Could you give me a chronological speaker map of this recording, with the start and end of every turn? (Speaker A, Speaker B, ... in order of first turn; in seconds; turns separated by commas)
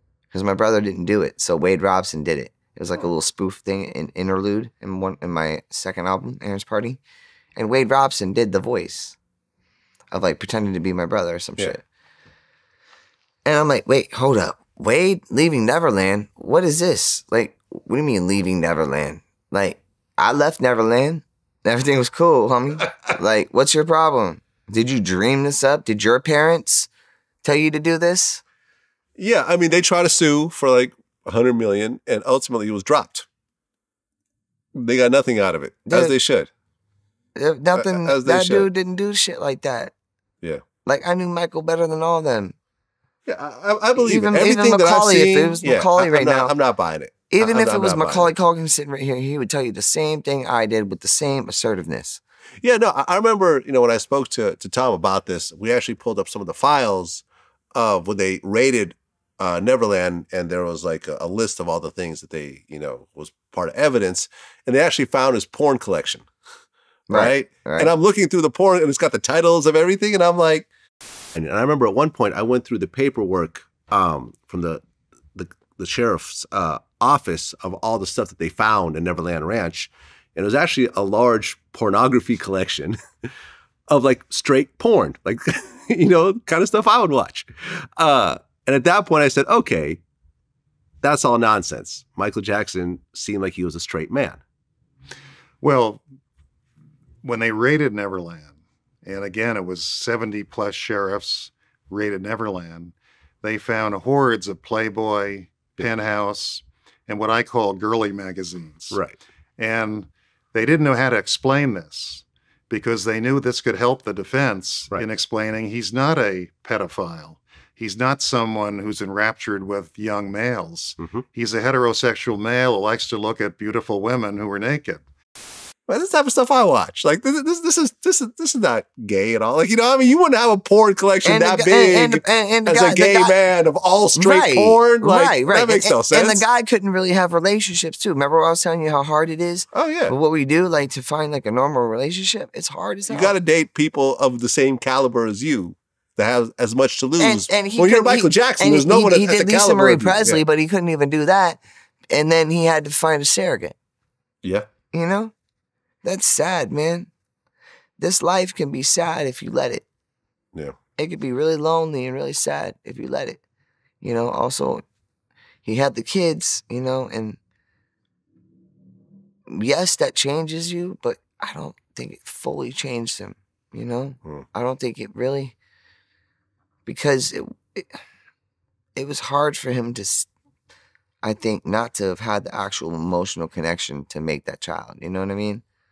Speaker A: 0.3-7.0, Speaker A: 7.6-9.2, Speaker A: 10.1-11.8, Speaker A: 13.4-26.9, Speaker A: 27.4-28.4, Speaker B: 29.2-33.3, Speaker B: 34.7-36.5, Speaker A: 35.9-36.1, Speaker A: 37.4-39.9, Speaker B: 37.8-38.7, Speaker A: 40.9-42.5, Speaker B: 43.3-48.3, Speaker A: 44.0-46.5, Speaker A: 47.3-52.2, Speaker B: 52.6-57.2, Speaker B: 57.7-66.3, Speaker A: 67.1-67.9, Speaker B: 67.1-70.7, Speaker B: 71.3-74.8, Speaker B: 75.3-83.0, Speaker B: 83.9-90.0, Speaker B: 91.0-94.4, Speaker C: 95.6-96.0, Speaker C: 97.2-109.0, Speaker B: 108.9-109.2, Speaker C: 109.6-125.0, Speaker B: 125.9-136.4, Speaker A: 131.2-133.3, Speaker A: 134.2-143.3, Speaker B: 139.7-140.1, Speaker B: 143.1-150.4, Speaker A: 147.2-153.8, Speaker A: 154.9-155.3, Speaker A: 156.0-157.1, Speaker A: 158.0-159.9, Speaker A: 161.0-163.4, Speaker A: 164.0-164.8, Speaker A: 165.7-167.4, Speaker A: 169.5-175.6, Speaker A: 176.9-177.9, Speaker A: 179.0-180.3, Speaker A: 181.2-185.6